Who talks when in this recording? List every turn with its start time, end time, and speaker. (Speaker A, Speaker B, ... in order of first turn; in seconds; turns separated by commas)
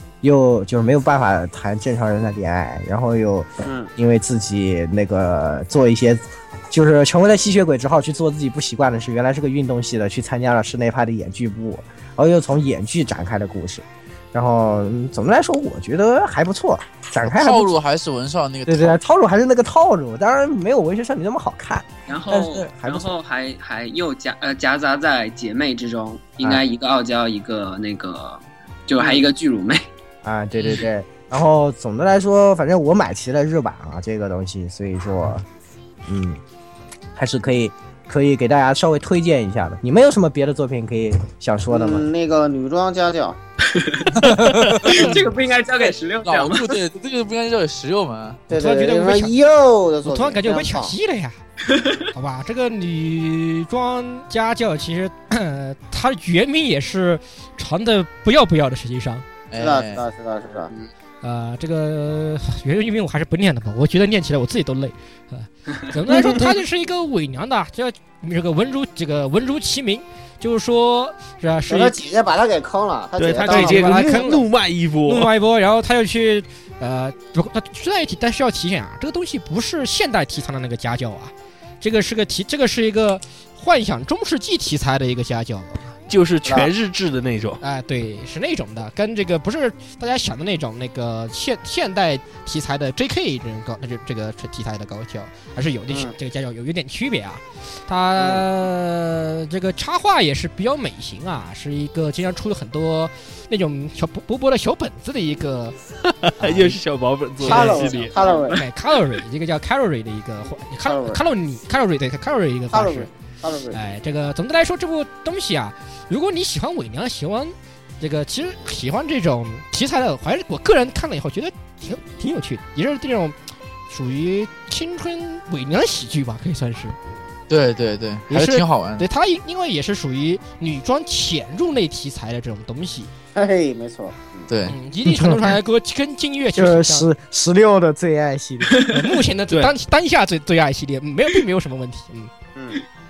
Speaker A: 0.2-17.8, Speaker B: 3.6-3.9, Speaker C: 17.3-19.0, Speaker A: 18.7-23.1, Speaker D: 22.1-29.8, Speaker A: 30.2-35.5, Speaker A: 36.0-36.4, Speaker A: 37.1-42.1, Speaker B: 41.7-43.4, Speaker D: 43.6-46.8, Speaker C: 44.2-45.2, Speaker E: 44.4-44.7, Speaker C: 46.2-48.4, Speaker B: 48.5-50.9, Speaker F: 48.5-49.4, Speaker F: 50.0-51.4, Speaker D: 51.7-52.0, Speaker F: 52.1-59.2, Speaker C: 59.5-60.0, Speaker B: 59.6-60.7, Speaker F: 61.2-72.0, Speaker B: 71.7-74.0, Speaker E: 73.2-75.3, Speaker F: 73.4-74.5, Speaker F: 75.0-85.9, Speaker E: 86.1-87.6, Speaker F: 87.6-105.7, Speaker B: 95.9-96.1, Speaker B: 98.2-98.4, Speaker E: 106.0-108.2, Speaker F: 106.4-106.7, Speaker B: 107.4-108.6, Speaker F: 107.4-113.1, Speaker D: 108.1-108.7, Speaker B: 110.8-111.2, Speaker B: 112.7-113.8, Speaker F: 113.7-123.3, Speaker F: 123.9-127.0, Speaker C: 127.5-129.1, Speaker F: 128.3-133.1, Speaker B: 133.3-134.5, Speaker C: 134.5-134.8, Speaker F: 134.7-137.1, Speaker A: 135.0-135.5, Speaker A: 136.5-138.8, Speaker D: 138.7-138.9, Speaker F: 138.9-142.3